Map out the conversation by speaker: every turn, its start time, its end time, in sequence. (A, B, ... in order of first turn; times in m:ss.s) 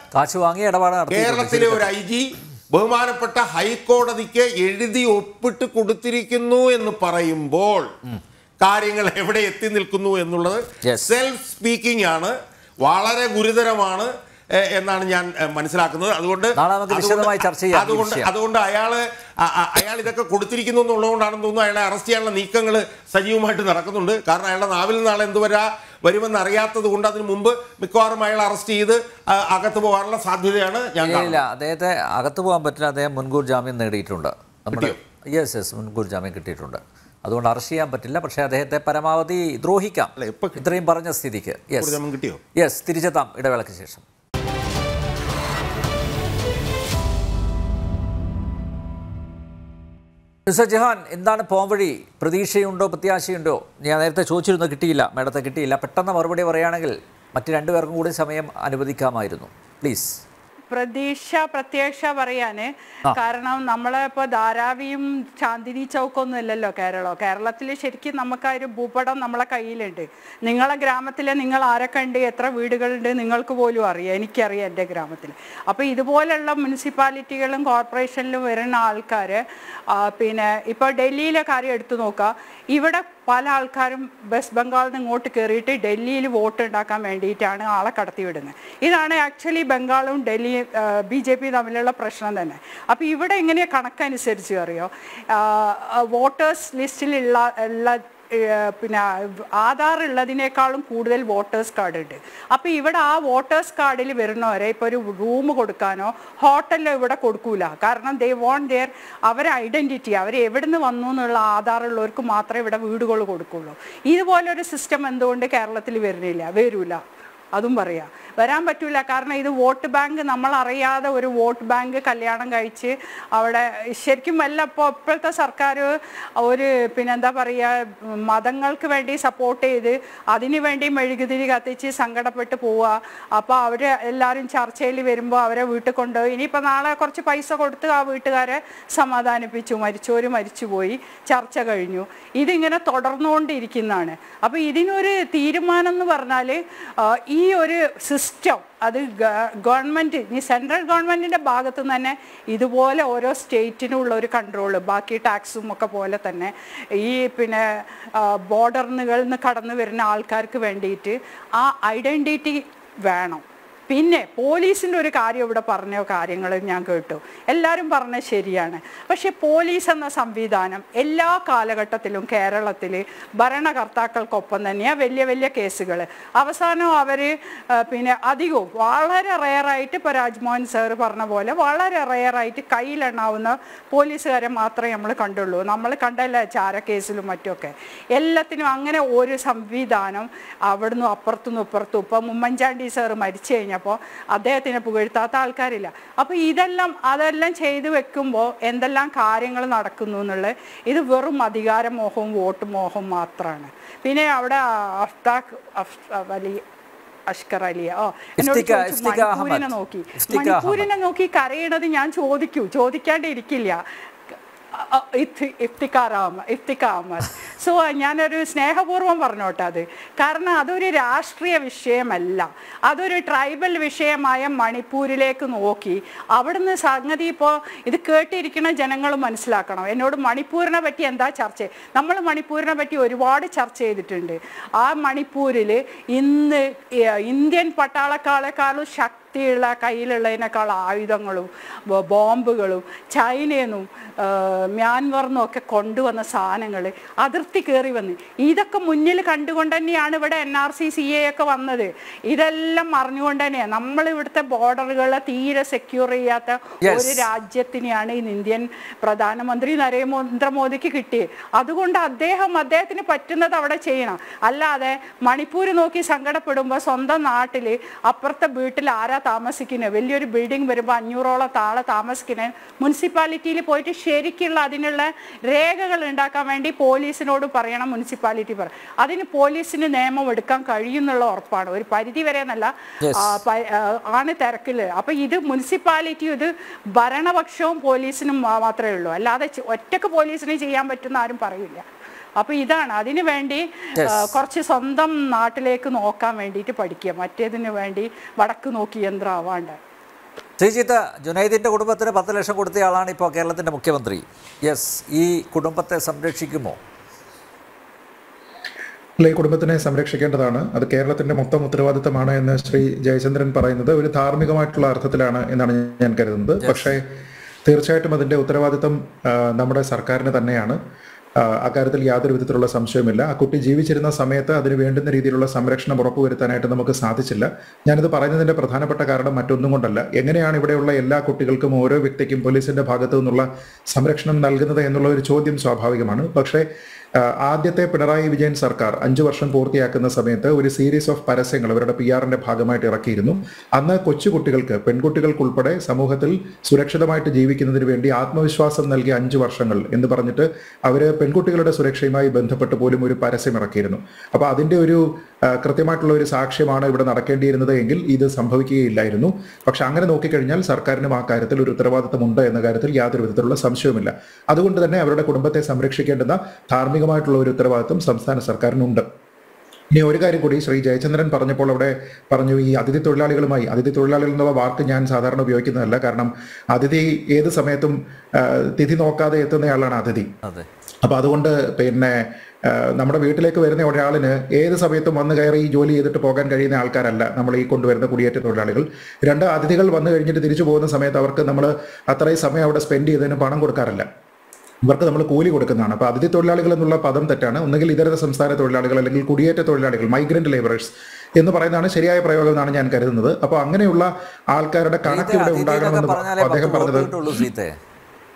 0:00.1-0:01.9 A
0:01.1-0:07.9 B
0:08.6-0:31.4 B
0:10.8-0:11.1 A
0:16.6-0:18.3 A
0:31.0-0:42.0 A
0:34.7-0:35.0 B
0:40.2-0:40.6 B
0:41.8-0:42.4 B
0:42.6-0:44.0 A
0:50.5-1:00.2 A
1:00.7-1:19.4 C
1:19.9-1:39.0 C
1:39.6-1:57.0 C
1:57.6-2:37.6 C
2:38.2-3:26.6 C
3:27.3-3:33.8 C
3:28.4-3:30.9 A
3:34.8-3:56.6 C
3:57.2-4:51.8 C
4:16.8-4:17.2 A
4:43.0-4:43.3 A
4:52.4-4:59.8 C
4:54.0-4:54.3 A
5:00.6-5:06.8 A
5:09.2-5:17.0 D
5:16.6-5:17.0 A
5:17.6-5:20.8 D
5:21.4-5:36.6 D
5:37.4-6:09.0 D
6:09.9-6:20.3 D
6:21.0-6:22.2 D
6:22.7-6:34.0 D
6:34.8-6:47.1 D
6:45.1-6:47.7 A